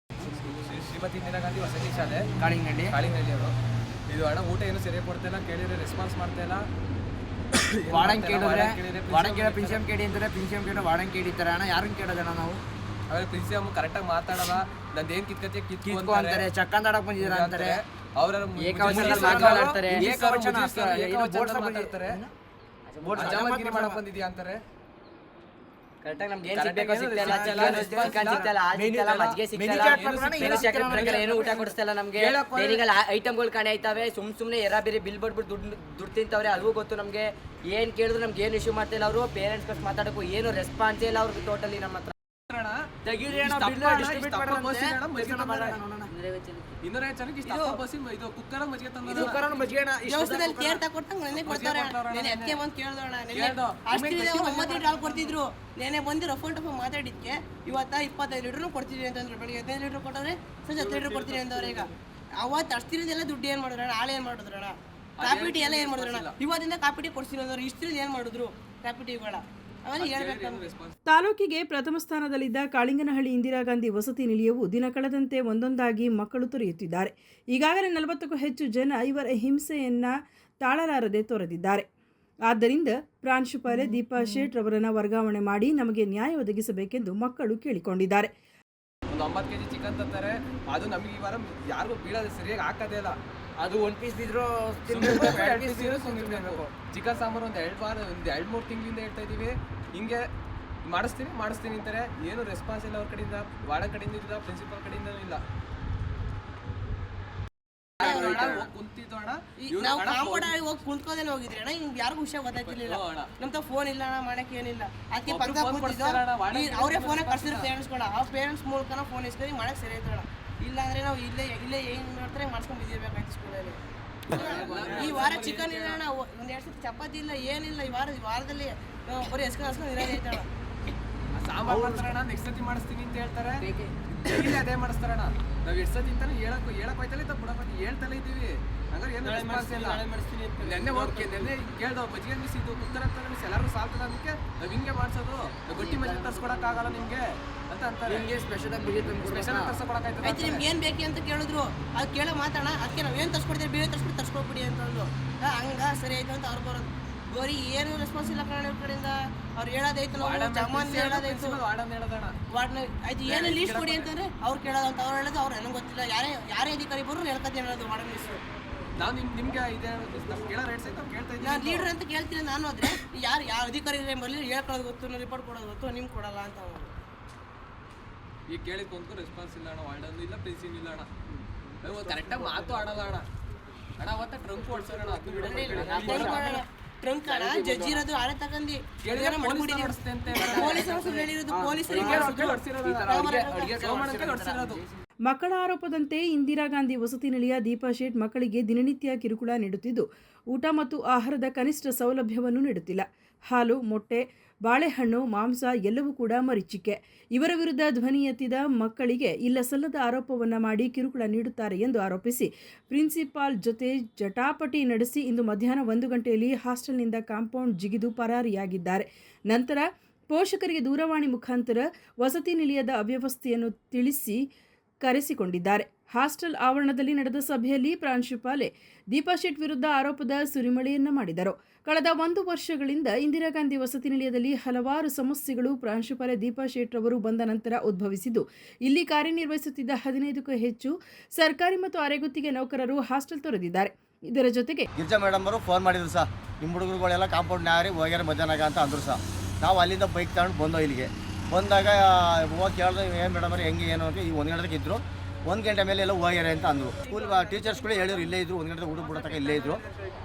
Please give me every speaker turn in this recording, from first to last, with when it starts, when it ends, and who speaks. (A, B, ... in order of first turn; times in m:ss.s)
0:00.2-0:02.3 A
0:02.4-0:02.9 B
0:02.9-0:03.5 A
0:04.1-0:06.6 A
0:07.8-0:09.8 A
0:07.9-0:12.6 B
0:13.1-0:16.5 A
0:15.8-0:17.8 B
0:17.2-0:22.2 A
0:18.6-0:20.0 C
0:18.9-0:22.3 B
0:22.9-0:23.4 C
0:23.0-0:24.0 B
0:23.1-0:24.6 A
0:26.0-0:42.1 C
0:26.5-0:28.5 A
0:27.2-0:32.8 B
0:29.6-0:31.7 A
0:32.2-0:32.8 A
0:42.5-0:45.8 A
0:43.1-0:46.1 B
0:43.1-0:43.7 C
0:46.1-0:46.6 C
0:46.8-0:49.5 A
0:47.4-0:47.8 D
0:49.0-0:50.7 B
0:50.0-1:10.6 D
0:50.5-0:50.8 A
0:51.3-0:52.6 A
0:53.3-0:55.4 A
0:54.1-0:54.5 B
1:00.8-1:01.7 A
1:05.2-1:06.3 A
1:10.0-1:10.9 A
1:11.1-1:21.8 E
1:22.5-1:28.3 E
1:29.1-1:33.2 A
1:33.6-1:36.7 B
1:34.9-1:40.2 A
1:40.8-1:45.4 A
1:48.0-1:48.7 D
1:48.0-1:50.5 A
1:49.6-2:10.5 D
1:52.5-1:53.3 A
1:55.3-1:57.7 A
2:04.3-2:06.0 A
2:04.6-2:05.0 C
2:11.4-2:13.7 A
2:14.2-2:20.0 A
2:20.6-2:28.3 A
2:25.8-2:26.3 B
2:28.0-2:29.8 B
2:29.2-2:30.6 A
2:30.2-2:41.6 D
2:40.2-2:42.4 A
2:42.5-2:48.4 D
2:43.3-2:44.1 A
2:49.0-2:51.9 A
2:51.4-2:56.9 D
2:58.5-3:01.1 A
3:01.8-3:03.3 A
3:04.0-3:06.6 A
3:05.3-3:13.7 D
3:05.7-3:06.5 C
3:07.2-3:08.0 B
3:09.0-3:11.2 A
3:10.3-3:14.8 B
3:11.9-3:14.8 A
3:15.3-3:44.4 E
3:45.0-4:04.9 E
4:05.0-4:19.8 F